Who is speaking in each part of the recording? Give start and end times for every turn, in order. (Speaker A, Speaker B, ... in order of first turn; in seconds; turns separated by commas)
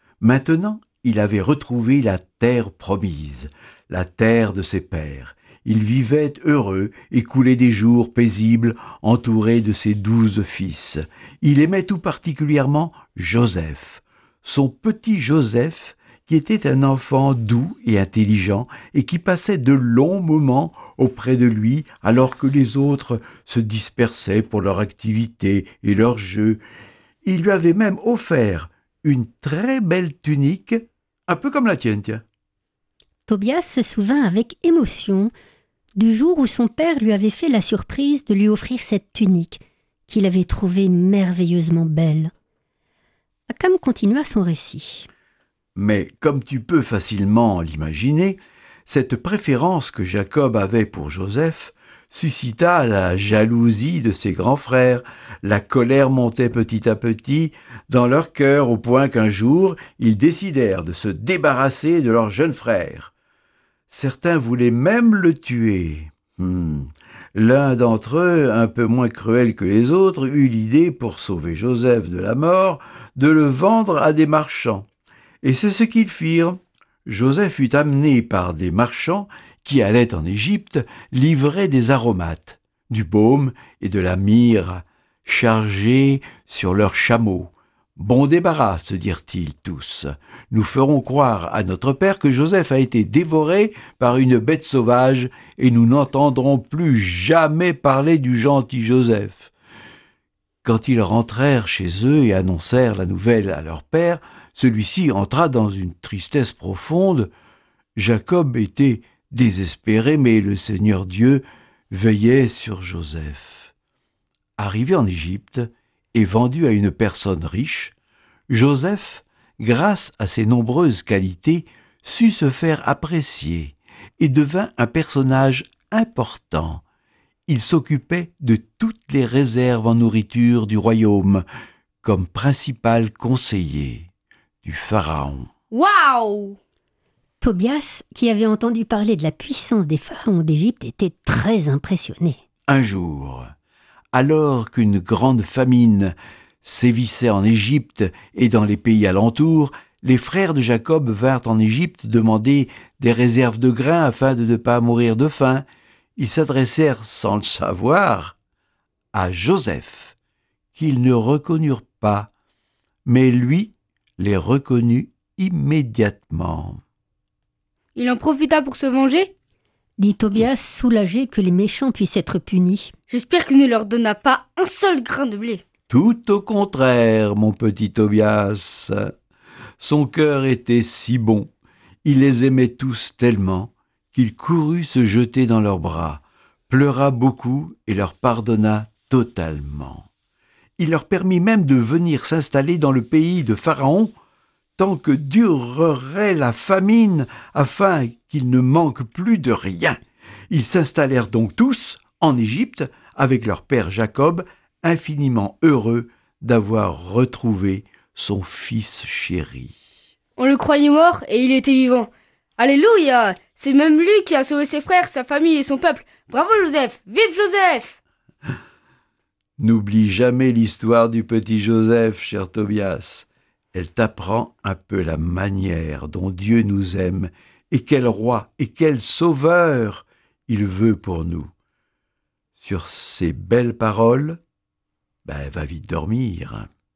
Speaker A: 0.2-26.6, Speaker A: 27.2-32.2, Speaker B: 33.3-35.3, Speaker B: 36.0-42.3, Speaker B: 43.5-45.1, Speaker A: 45.8-63.1, Speaker A: 63.9-74.8, Speaker A: 75.4-99.5, Speaker A: 100.6-107.3, Speaker A: 108.0-113.7, Speaker A: 114.6-118.0, Speaker A: 118.5-126.8, Speaker A: 127.5-131.4, Speaker A: 132.0-134.1, Speaker A: 134.6-135.5, Speaker C: 135.7-136.6, Speaker B: 137.4-142.4, Speaker A: 142.7-143.5, Speaker A: 144.1-155.6, Speaker A: 156.2-158.3, Speaker A: 159.1-160.2, Speaker A: 160.8-162.3, Speaker A: 163.1-166.8, Speaker C: 168.0-169.3, Speaker B: 170.0-172.9, Speaker C: 173.1-175.6, Speaker A: 175.9-179.0, Speaker A: 179.8-181.5, Speaker A: 182.1-190.1, Speaker A: 190.8-194.1, Speaker A: 194.8-200.0, Speaker A: 200.5-209.8, Speaker C: 210.4-218.0, Speaker A: 219.6-231.5, Speaker A: 232.6-234.4, Speaker A: 235.2-236.7